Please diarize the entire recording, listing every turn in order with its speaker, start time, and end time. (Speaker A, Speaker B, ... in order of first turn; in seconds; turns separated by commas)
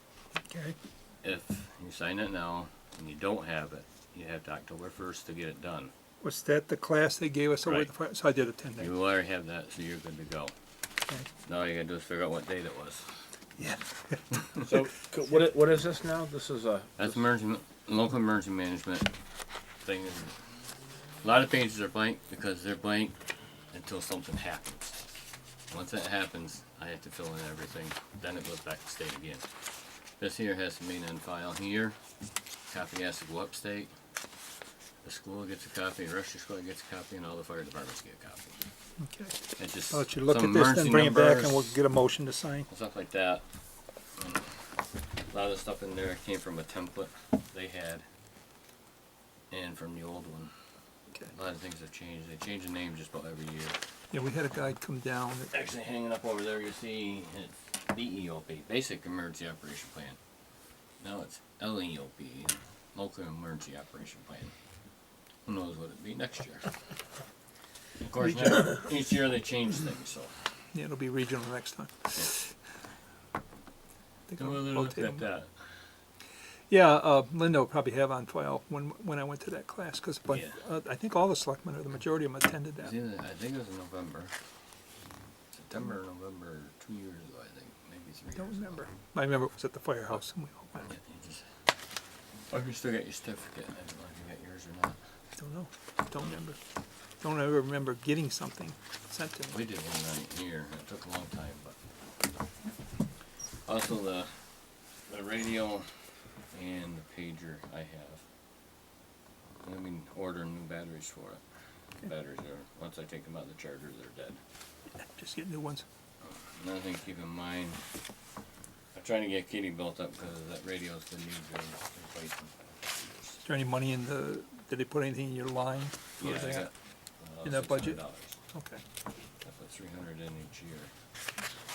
Speaker A: 0.4-0.8, Speaker B: 1.2-5.9, Speaker A: 6.2-8.9, Speaker B: 7.6-7.9, Speaker B: 8.8-10.5, Speaker B: 11.4-13.2, Speaker A: 13.6-14.2, Speaker C: 14.6-17.2, Speaker B: 17.0-19.1, Speaker B: 19.8-20.5, Speaker B: 21.2-25.0, Speaker B: 25.7-29.6, Speaker B: 30.2-32.0, Speaker B: 32.6-33.9, Speaker B: 35.0-38.6, Speaker A: 39.0-42.7, Speaker B: 39.5-41.8, Speaker B: 42.7-43.4, Speaker B: 44.1-44.6, Speaker B: 45.2-48.0, Speaker B: 49.5-50.5, Speaker B: 51.3-53.8, Speaker A: 54.1-55.5, Speaker B: 55.5-60.2, Speaker B: 61.0-64.5, Speaker B: 65.4-66.8, Speaker B: 68.0-70.3, Speaker A: 68.2-68.9, Speaker A: 70.7-72.5, Speaker A: 74.3-75.2, Speaker B: 74.4-75.9, Speaker A: 76.7-82.9, Speaker B: 80.3-80.6, Speaker B: 82.8-84.3, Speaker B: 85.5-88.8, Speaker A: 88.3-90.9, Speaker B: 90.8-91.5, Speaker B: 92.5-95.0, Speaker A: 95.4-96.6, Speaker A: 97.2-99.6, Speaker B: 99.5-101.8, Speaker B: 103.6-104.5, Speaker B: 105.0-105.9, Speaker B: 106.5-108.2, Speaker B: 109.6-111.4, Speaker B: 112.0-114.4, Speaker A: 115.0-115.8, Speaker B: 116.2-117.8, Speaker B: 118.9-123.4, Speaker A: 123.4-126.7, Speaker B: 126.2-128.4, Speaker A: 127.4-128.8, Speaker B: 129.4-130.9